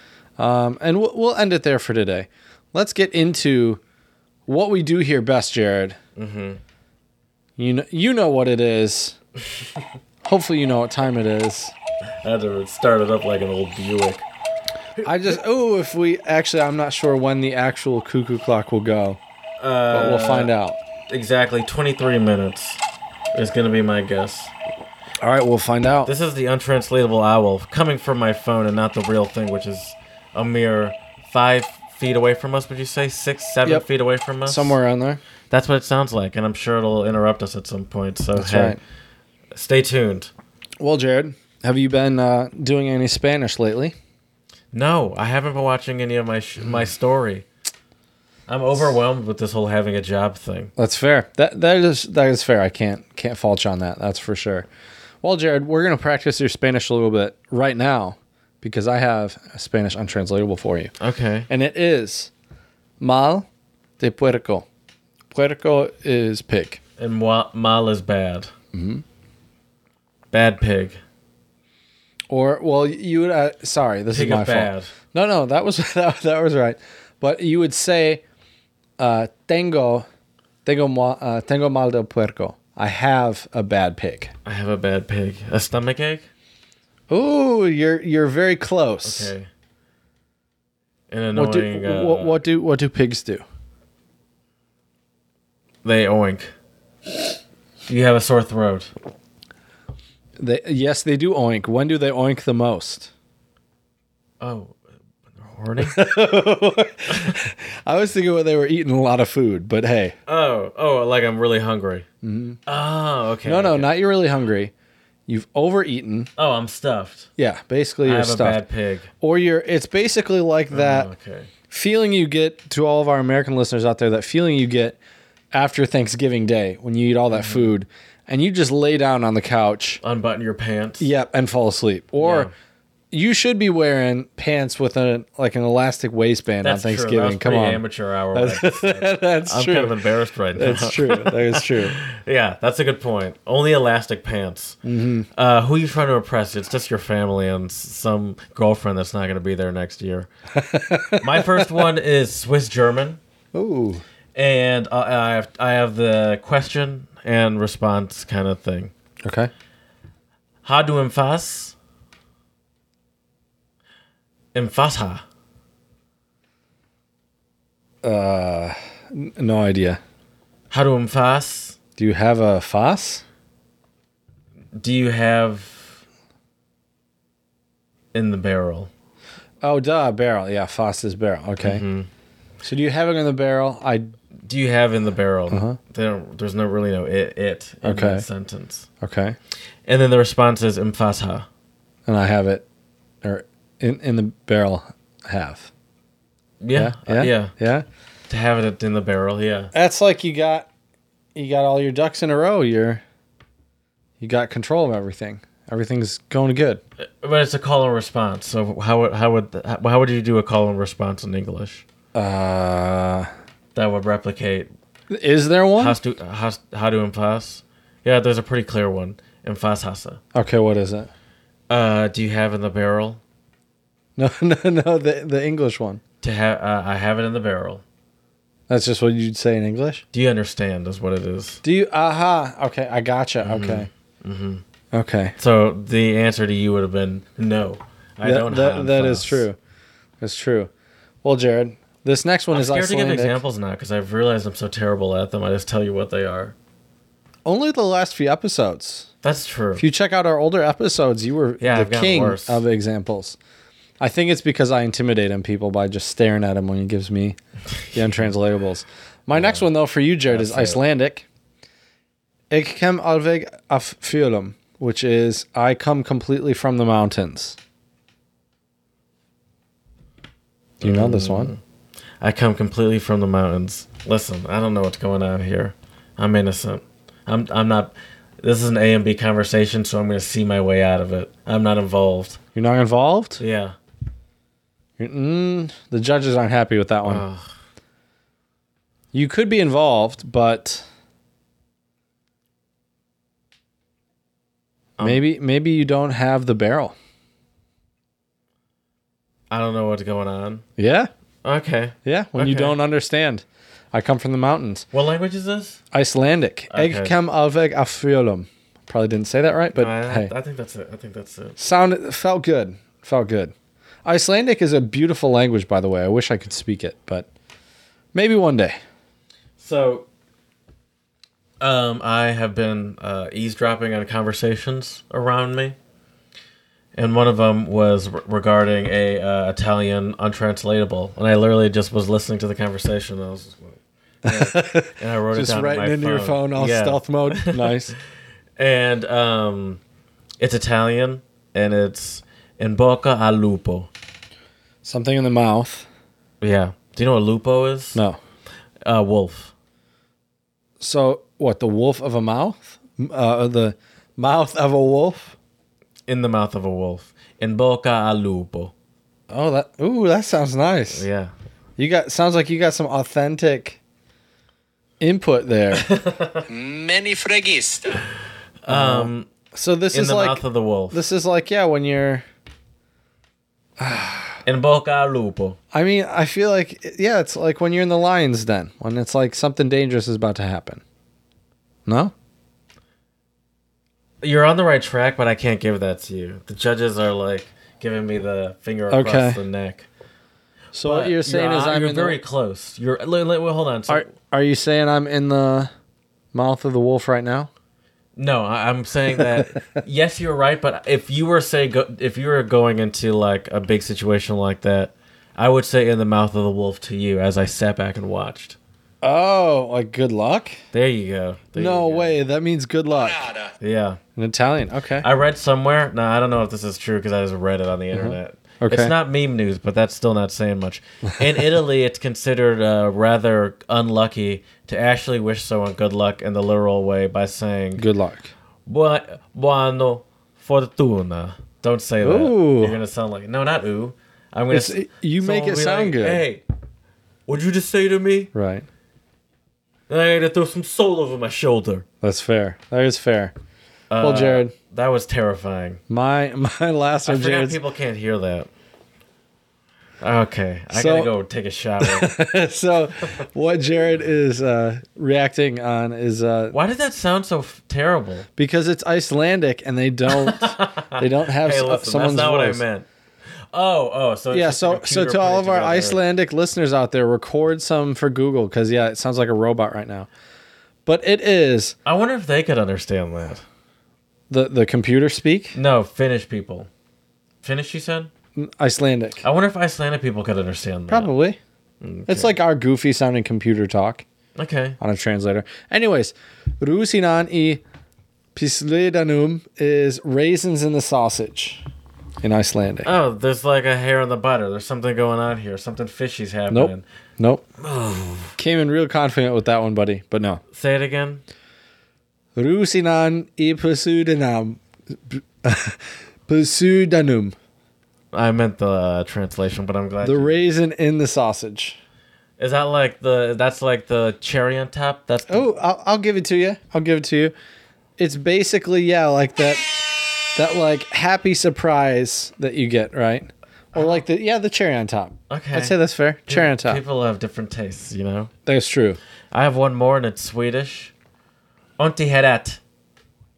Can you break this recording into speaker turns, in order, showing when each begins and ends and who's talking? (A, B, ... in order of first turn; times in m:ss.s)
0:00.4-0:03.8 A
0:04.5-0:06.0 A
0:06.2-0:06.6 B
0:07.6-0:09.2 A
0:10.2-0:11.8 A
0:12.2-0:14.2 B
0:15.0-0:15.4 B
0:15.0-0:19.2 A
0:19.6-0:20.5 B
0:19.9-0:20.8 A
0:21.1-0:22.8 B
0:23.3-0:24.5 B
0:25.2-0:26.1 A
0:26.0-0:34.8 B
0:34.5-0:35.2 A
0:35.5-0:38.8 B
0:38.4-0:38.8 A
0:39.5-0:40.3 B
0:40.8-0:44.0 A
0:44.7-0:47.5 B
0:48.5-0:50.7 B
0:50.8-0:54.7 A
0:55.2-1:00.9 A
1:01.0-1:01.5 B
1:01.5-1:02.3 A
1:03.0-1:03.5 A
1:04.0-1:04.6 A
1:05.3-1:06.8 A
1:07.0-1:08.5 B
1:08.7-1:09.0 A
1:10.3-1:11.0 B
1:12.3-1:18.2 A
1:14.1-1:14.9 B
1:19.0-1:20.0 A
1:20.6-1:24.3 A
1:24.4-1:26.3 B
1:27.1-1:29.3 A
1:29.0-1:29.5 B
1:31.1-1:32.4 B
1:31.3-1:33.4 A
1:35.8-1:36.5 B
1:37.9-1:38.9 B
1:40.4-1:43.1 A
1:44.4-1:44.8 B
1:45.3-1:46.0 B
1:45.8-1:50.2 A
1:47.1-1:47.4 B
1:50.3-1:52.0 B
1:52.2-1:52.6 A
1:52.7-1:53.9 B
1:53.4-1:54.7 A
1:55.3-1:56.3 A
1:56.4-1:57.3 B
1:57.4-1:58.6 A
1:58.0-1:59.1 B
1:59.2-2:01.1 A
2:00.7-2:01.5 B
2:01.7-2:05.0 A
2:05.5-2:10.0 A
2:07.3-2:07.7 B
2:10.0-2:11.1 B
2:11.0-2:12.5 A
2:12.2-2:12.5 B
2:13.1-2:20.0 A
2:16.6-2:24.8 B
2:20.6-2:22.0 A
2:24.8-2:25.3 A
2:25.3-2:30.3 B
2:30.5-2:31.8 A
2:31.2-2:33.2 B
2:33.5-2:34.0 A
2:34.3-2:38.9 B
2:39.2-2:39.5 A
2:40.6-2:41.8 B
2:44.5-2:45.2 B
2:48.0-2:50.0 A
2:50.7-2:51.8 B
2:52.0-2:53.2 A
2:54.8-2:56.0 B
2:58.1-2:58.9 B
2:59.6-3:01.8 A
3:01.6-3:02.1 B
3:02.6-3:04.2 A
3:04.4-3:08.9 B
3:05.5-3:05.8 A
3:07.8-3:08.2 A
3:09.0-3:09.4 A
3:09.8-3:11.5 B
3:12.0-3:12.6 A
3:13.2-3:15.7 A
3:16.6-3:17.5 B
3:16.8-3:17.8 A
3:18.3-3:19.7 B
3:19.7-3:20.7 A
3:21.3-3:23.0 A
3:24.2-3:26.8 A
3:27.0-3:31.8 B
3:32.2-3:33.3 A
3:33.8-3:34.7 B
3:35.1-3:36.0 A
3:35.8-3:40.2 B
3:40.3-3:41.1 A
3:41.7-3:43.2 B
3:44.2-3:46.0 A
3:46.2-3:47.8 B
3:48.7-3:50.0 A
3:50.1-3:51.6 B
3:51.6-3:53.9 A
3:53.4-3:54.6 B
3:54.9-3:55.4 A
3:55.4-3:59.4 B
3:58.2-3:59.6 A
4:00.2-4:00.7 A
4:01.2-4:03.4 A
4:02.5-4:06.5 B
4:07.5-4:09.1 A
4:09.2-4:09.8 B
4:09.8-4:13.4 A
4:11.6-4:12.6 B
4:14.0-4:17.4 A
4:17.8-4:18.2 B
4:17.9-4:21.2 A
4:19.3-4:19.7 B
4:20.3-4:20.8 B
4:22.5-4:27.6 A
4:30.8-4:31.6 B
4:30.8-4:31.5 A
4:32.2-4:42.4 B
4:42.5-4:43.4 A
4:43.4-4:43.8 B
4:45.0-4:47.2 A
4:47.0-4:47.5 B
4:49.1-4:50.8 A
4:55.0-4:57.0 A
4:59.5-5:00.6 B
5:00.8-5:01.1 A
5:01.4-5:02.8 B
5:02.0-5:04.8 A
5:04.9-5:05.8 B
5:05.9-5:10.3 A
5:06.7-5:07.2 B
5:09.8-5:11.6 B
5:11.6-5:13.5 A
5:14.0-5:17.3 A
5:18.1-5:18.8 A
5:19.6-5:20.0 B
5:21.6-5:25.8 B
5:27.0-5:37.8 B
5:34.2-5:38.0 A
5:38.6-5:39.8 B
5:40.4-5:43.9 B
5:44.8-5:45.9 A
5:46.4-5:48.0 B
5:48.8-5:49.5 B
5:50.8-5:55.3 A
5:56.1-5:58.7 B
5:59.3-6:01.0 A
6:00.9-6:01.3 B
6:01.8-6:03.8 A
6:05.0-6:05.9 A
6:05.7-6:06.4 B
6:06.5-6:08.0 C
6:08.6-6:09.3 B
6:08.7-6:12.2 A
6:09.9-6:11.0 B
6:13.8-6:14.4 A
6:14.5-6:15.6 B
6:15.7-6:20.8 A
6:21.8-6:22.1 A
6:24.2-6:29.9 B
6:28.9-6:29.4 A
6:30.7-6:32.2 A
6:30.8-6:34.0 B
6:33.9-6:35.7 A
6:36.3-6:37.5 A
6:38.2-6:48.6 B
6:39.2-6:39.8 A
6:49.0-6:50.6 A
6:50.7-6:52.2 B
6:51.6-6:53.2 A
6:52.9-6:53.5 C
6:53.6-6:54.0 B
6:54.2-6:55.0 A
6:55.0-7:07.8 B
6:57.9-6:58.9 A
7:07.8-7:08.3 A
7:08.7-7:16.4 B
7:12.0-7:12.8 A
7:14.5-7:16.2 A
7:17.3-7:18.3 B
7:18.3-7:18.7 A
7:19.9-7:21.8 B
7:22.0-7:23.3 A
7:23.9-7:25.8 B
7:24.0-7:24.5 A
7:25.9-7:27.6 A
7:27.0-7:28.5 B
7:30.0-7:32.2 B
7:30.7-7:31.1 A
7:31.8-7:36.6 A
7:36.5-7:38.3 B
7:38.4-7:42.6 A
7:40.1-7:42.9 B
7:43.5-7:46.0 B
7:44.3-7:50.1 A
7:50.8-7:51.8 A
7:51.8-7:53.4 B
7:54.3-7:55.6 A
7:55.5-7:56.7 B
7:57.4-7:58.1 B
7:58.4-7:59.2 A
7:59.2-8:01.1 B
8:00.9-8:01.4 A
8:01.8-8:02.3 B
8:02.1-8:04.0 A
8:04.3-8:04.8 B
8:04.8-8:07.6 A
8:08.3-8:11.6 A
8:12.2-8:12.9 A
8:12.8-8:16.8 B
8:16.5-8:17.4 A
8:17.6-8:18.3 B
8:18.4-8:20.4 A
8:20.5-8:21.2 B
8:22.4-8:27.3 A
8:28.1-8:30.3 B
8:30.0-8:31.8 A
8:32.4-8:35.5 B
8:35.3-8:37.3 A
8:38.0-8:46.8 A
8:43.7-8:44.0 B
8:45.3-8:45.8 B
8:46.3-8:48.3 B
8:48.5-8:49.0 A
8:49.3-8:50.9 B
8:51.8-8:52.6 B